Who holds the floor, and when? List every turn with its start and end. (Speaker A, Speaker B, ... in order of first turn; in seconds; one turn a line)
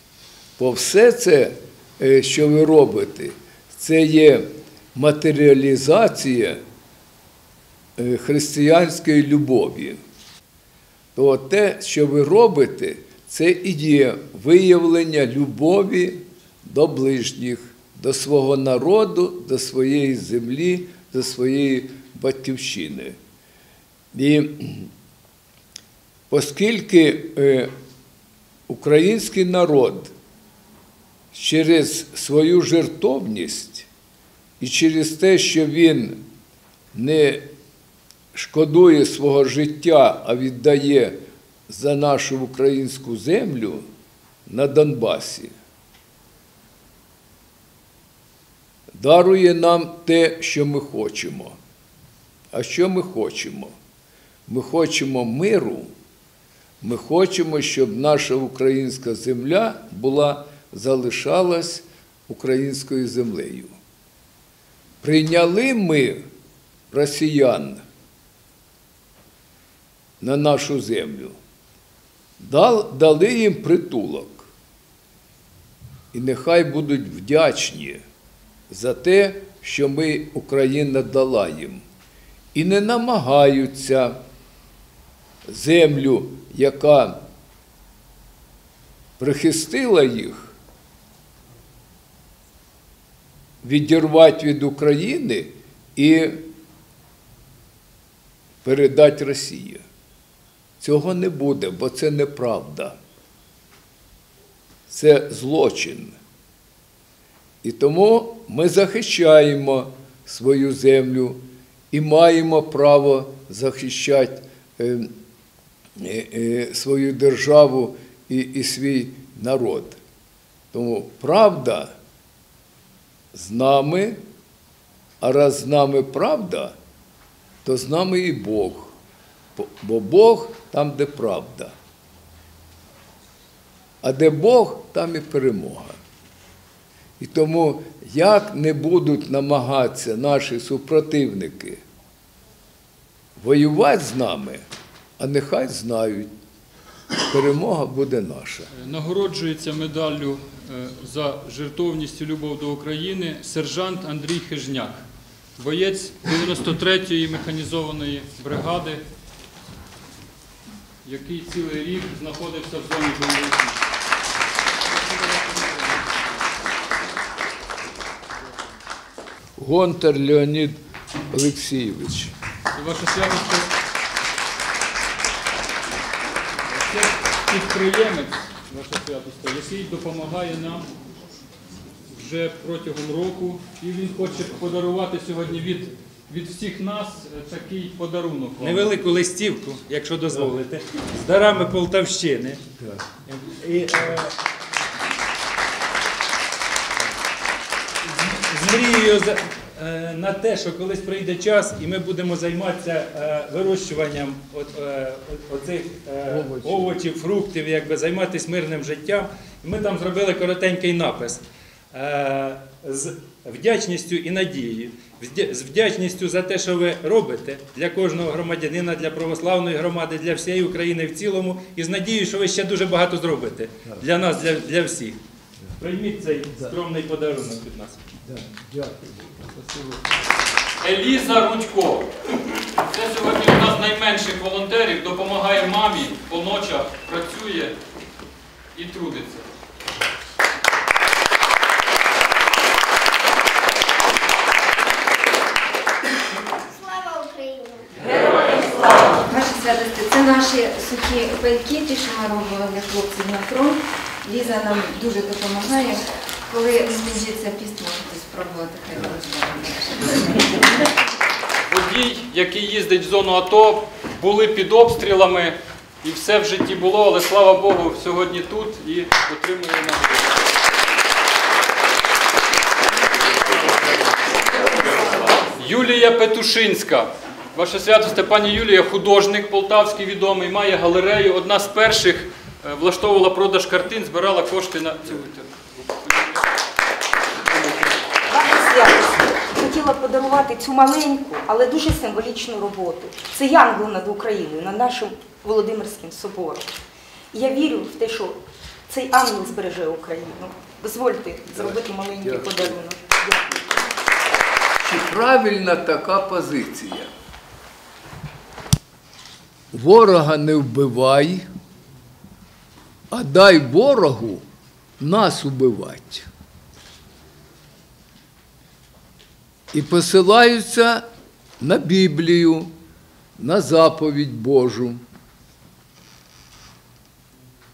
Speaker A: 0.6-6.6
Speaker A: 8.0-10.0
Speaker A: 11.2-23.1
Speaker A: 24.1-24.9
Speaker A: 26.3-27.7
Speaker A: 28.7-30.1
Speaker A: 31.3-33.9
Speaker A: 34.6-36.2
Speaker A: 36.9-37.4
Speaker A: 38.3-43.8
Speaker A: 44.5-45.5
Speaker A: 48.9-51.6
Speaker A: 52.5-53.7
Speaker A: 54.5-55.9
Speaker A: 56.8-63.7
Speaker A: 65.0-66.2
Speaker A: 66.9-67.8
Speaker A: 70.2-71.3
Speaker A: 72.4-74.5
Speaker A: 76.1-78.0
Speaker A: 78.7-81.8
Speaker A: 82.5-84.2
Speaker A: 85.4-87.2
Speaker A: 89.2-90.5
Speaker A: 93.6-96.5
Speaker A: 98.6-99.8
Speaker A: 100.8-103.0
Speaker A: 104.9-106.2
Speaker A: 107.6-115.1
Speaker A: 116.0-120.0
Speaker A: 120.7-121.9
Speaker A: 123.3-124.2
Speaker A: 125.2-126.8
Speaker A: 127.6-128.9
Speaker A: 129.6-131.7
Speaker A: 134.0-136.0
Speaker A: 137.2-141.8
Speaker A: 143.4-144.6
Speaker A: 145.2-146.3
Speaker A: 147.3-148.7
Speaker B: 148.7-155.0
Speaker B: 155.6-159.0
Speaker B: 161.0-163.8
Speaker A: 169.6-170.7
Speaker A: 171.3-172.3
Speaker B: 172.7-173.7
Speaker B: 176.7-180.8
Speaker B: 182.1-188.9
Speaker C: 188.6-194.3
Speaker C: 198.0-225.2
Speaker A: 206.3-206.9
Speaker C: 225.8-228.0
Speaker A: 228.2-229.5
Speaker B: 230.8-237.8
Speaker B: 238.7-239.5
Speaker D: 248.8-260.6
Speaker B: 261.7-270.5
Speaker B: 273.3-274.0
Speaker B: 274.5-286.4
Speaker B: 287.5-287.9
Speaker E: 288.3-296.7
Speaker E: 297.3-303.8
Speaker A: 301.5-302.8
Speaker A: 304.8-307.1
Speaker A: 309.7-311.4
Speaker A: 313.1-314.4
Speaker A: 315.0-316.3
Speaker A: 319.7-321.0
Speaker A: 321.6-322.7
Speaker A: 323.4-325.0